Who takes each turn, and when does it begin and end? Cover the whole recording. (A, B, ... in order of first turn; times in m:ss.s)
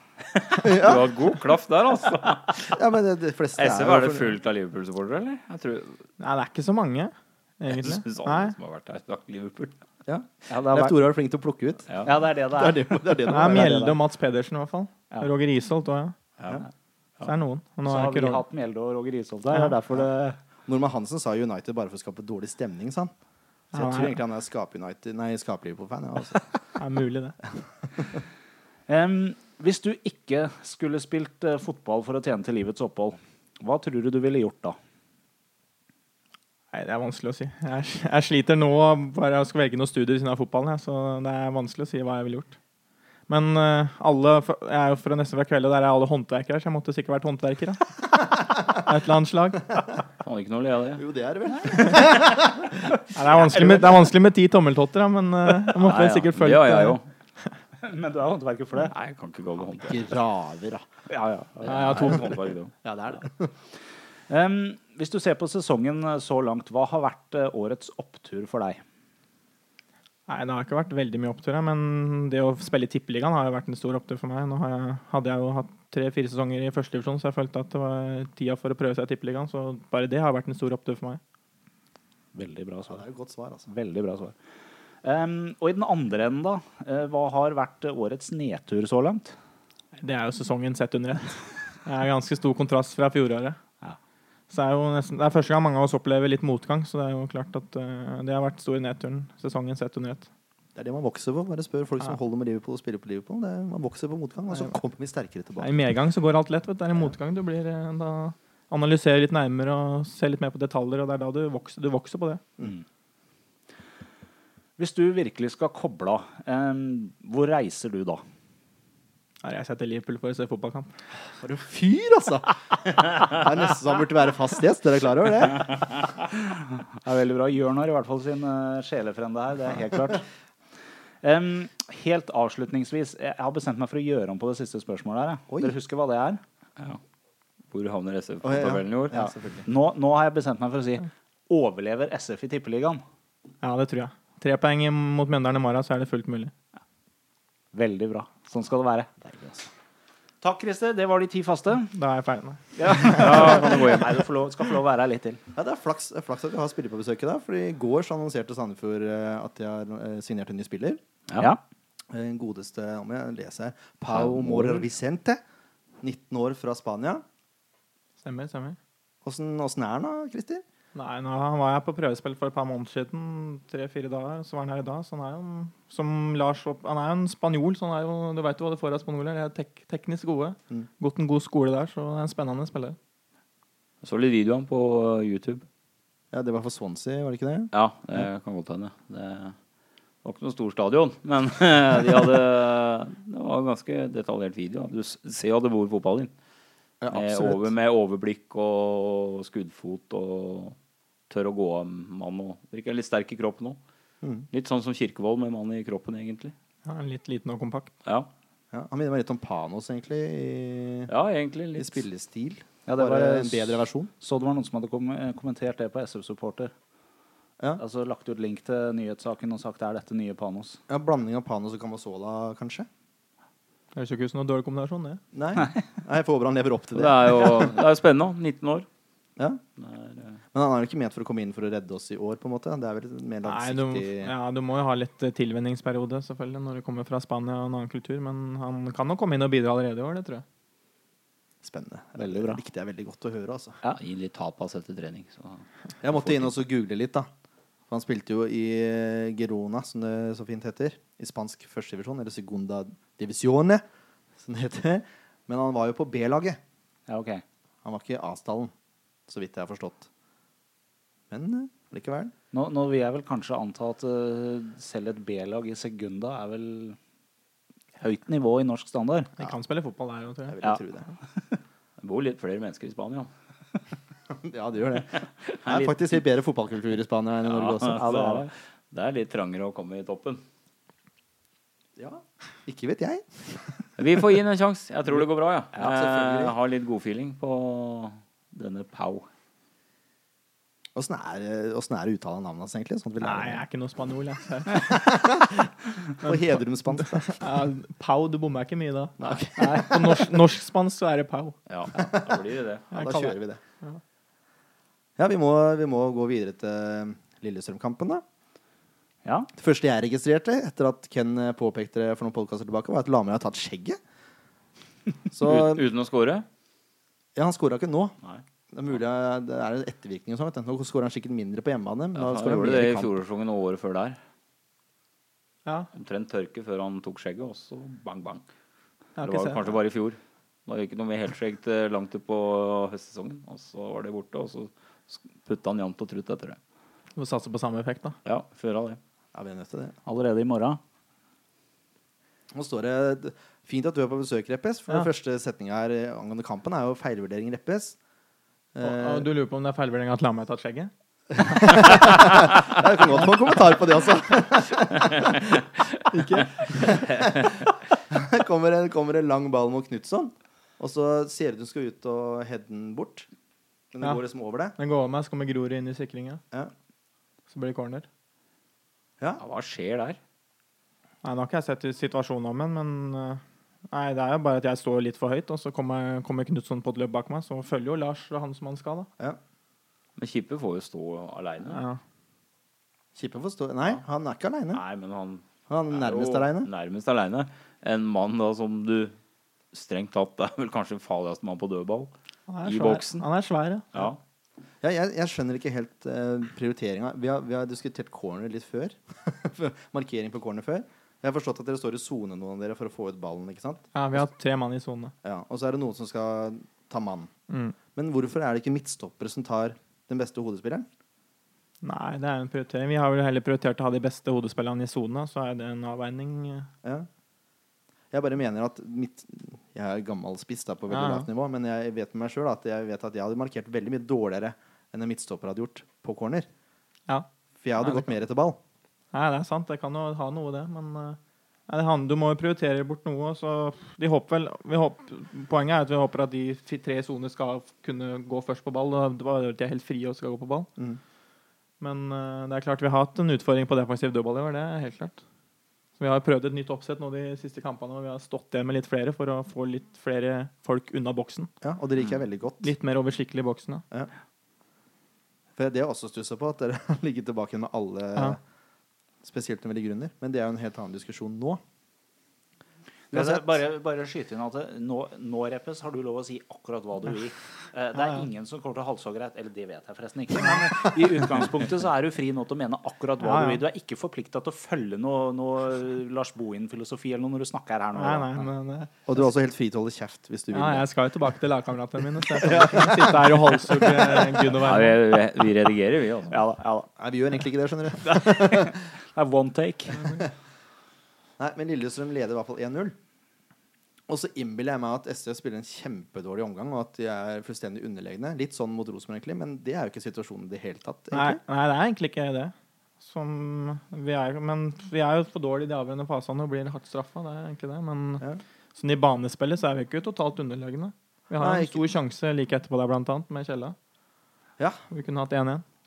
0:00.4-0:02.7 A
0:00.6-0:01.2 B
0:02.6-0:04.3 B
0:03.5-0:06.0 A
0:06.2-0:08.5 C
0:07.7-0:09.8 A
0:10.0-0:13.9 B
0:10.5-0:11.0 D
0:12.0-0:14.0 D
0:13.2-0:16.1 C
0:17.2-0:18.4 C
0:17.8-0:20.4 D
0:20.6-0:23.1 B
0:23.7-0:24.2 C
0:23.7-0:26.4 B
0:26.8-0:27.4 C
0:28.9-0:34.8 D
0:36.7-0:42.6 C
0:43.3-0:47.8 C
0:48.7-0:49.6 C
0:50.2-0:51.0 A
0:51.0-0:52.8 B
0:53.1-0:57.0 C
0:53.3-0:53.9 D
0:55.8-0:57.1 A
0:57.8-0:58.9 D
0:58.8-1:00.1 A
0:59.8-1:00.8 B
1:01.1-1:02.3 D
1:01.6-1:02.4 C
1:01.6-1:02.7 A
1:02.8-1:03.5 B
1:04.3-1:08.8 D
1:10.3-1:21.2 C
1:22.3-1:23.0 D
1:22.9-1:23.7 B
1:23.7-1:24.3 D
1:25.0-1:29.3 D
1:30.0-1:33.6 C
1:34.5-1:40.3 C
1:40.7-1:45.8 B
1:45.6-1:52.4 C
1:54.8-1:58.2 D
1:59.4-2:00.9 C
2:01.4-2:05.7 B
2:07.0-2:10.2 D
2:11.2-2:16.4 D
2:15.5-2:15.7 B
2:17.7-2:19.2 A
2:18.4-2:19.7 B
2:19.1-2:23.0 D
2:23.6-2:26.5 C
2:27.7-2:29.1 D
2:29.3-2:29.7 B
2:30.4-2:31.9 D
2:31.9-2:33.7 C
2:32.8-2:35.4 D
2:33.0-2:34.1 A
2:35.5-2:41.0 B
2:42.1-2:45.4 B
2:44.5-2:44.8 A
2:46.0-2:47.2 B
2:48.2-2:48.8 C
2:49.2-2:50.6 B
2:50.9-3:03.0 C
3:04.0-3:05.6 A
3:06.3-3:07.7 B
3:07.7-3:09.6 A
3:10.2-3:16.3 A
3:17.0-3:17.7 B
3:17.1-3:20.8 A
3:21.3-3:23.8 A
3:24.2-3:24.5 B
3:24.5-3:26.5 A
3:26.8-3:27.9 C
3:28.7-3:31.1 B
3:31.1-3:32.0 A
3:31.7-3:34.1 B
3:32.9-3:36.7 D
3:37.8-3:40.8 D
3:40.9-3:42.9 B
3:43.9-3:45.2 C
3:45.3-3:47.8 B
3:46.9-3:48.9 A
3:49.8-3:50.4 A
3:50.5-3:54.3 B
3:53.4-4:00.4 C
4:01.6-4:03.8 B
4:02.2-4:02.6 D
4:03.9-4:05.6 A
4:06.0-4:07.3 B
4:07.9-4:13.8 B
4:14.4-4:16.6 B
4:17.1-4:17.4 D
4:17.8-4:18.7 B
4:19.3-4:20.1 B
4:21.3-4:22.3 B
4:22.5-4:27.0 D
4:28.0-4:29.3 D
4:29.4-4:30.6 C
4:30.5-4:31.1 B
4:32.0-4:33.3 A
4:34.3-4:38.1 B
4:35.5-4:36.1 A
4:37.5-4:40.4 A
4:37.8-4:38.5 D
4:42.0-4:43.8 B
4:44.0-4:49.3 A
4:45.8-4:46.5 B
4:51.0-4:53.6 B
4:53.2-4:55.0 C
4:54.7-4:57.4 B
4:57.0-5:01.6 C
4:59.2-5:00.3 B
4:59.6-5:00.1 D
5:01.7-5:02.9 A
5:01.9-5:03.6 B
5:02.9-5:04.0 C
5:05.2-5:08.2 B
5:09.6-5:14.0 B
5:15.3-5:15.8 B
5:15.4-5:16.4 A
5:17.3-5:18.1 B
5:18.7-5:23.1 B
5:22.2-5:24.2 A
5:25.9-5:28.4 A
5:29.2-5:29.7 C
5:29.2-5:36.6 A
5:37.2-5:38.2 C
5:38.2-5:39.0 A
5:39.3-5:40.0 B
5:40.0-5:40.8 D
5:42.5-5:48.0 B
5:48.7-5:49.3 B
5:48.8-5:50.9 C
5:51.3-5:55.6 B
5:56.1-5:57.1 C
5:56.3-6:03.3 B
6:03.9-6:04.7 B
6:04.8-6:06.4 C
6:07.5-6:08.1 C
6:09.4-6:10.2 A
6:11.2-6:19.1 C
6:20.2-6:21.8 A
6:21.6-6:22.0 C
6:23.1-6:24.8 B
6:24.7-6:29.1 A
6:25.7-6:26.7 B
6:29.7-6:32.1 A
6:32.5-6:34.1 C
6:32.6-6:33.2 A
6:33.9-6:34.2 A
6:34.8-6:44.3 B
6:43.9-6:45.1 C
6:45.2-6:47.3 B
6:47.5-6:47.8 C
6:47.9-6:50.9 B
6:51.8-6:56.7 C
6:58.1-7:06.5 B
7:00.9-7:01.3 C
7:07.6-7:08.6 B
7:07.8-7:08.1 C
7:09.1-7:20.7 C
7:21.8-7:25.2 C
7:26.0-7:31.5 C
7:31.6-7:32.7 B
7:32.6-7:33.8 C
7:35.6-7:38.4 B
7:39.2-7:41.6 B
7:43.1-7:58.5 D
7:43.1-7:43.5 B
7:53.2-7:53.6 C
7:57.9-7:59.0 C
7:59.0-8:00.9 B
8:00.5-8:05.0 C
8:02.2-8:04.6 B
8:04.5-8:06.4 A
8:06.3-8:06.9 D
8:07.0-8:08.8 B
8:08.0-8:10.1 D
8:11.4-8:12.9 B
8:14.1-8:21.4 B
8:21.1-8:28.2 C
8:28.7-8:33.8 C
8:31.4-8:31.9 B
8:34.6-8:34.8 B
8:34.9-8:35.6 C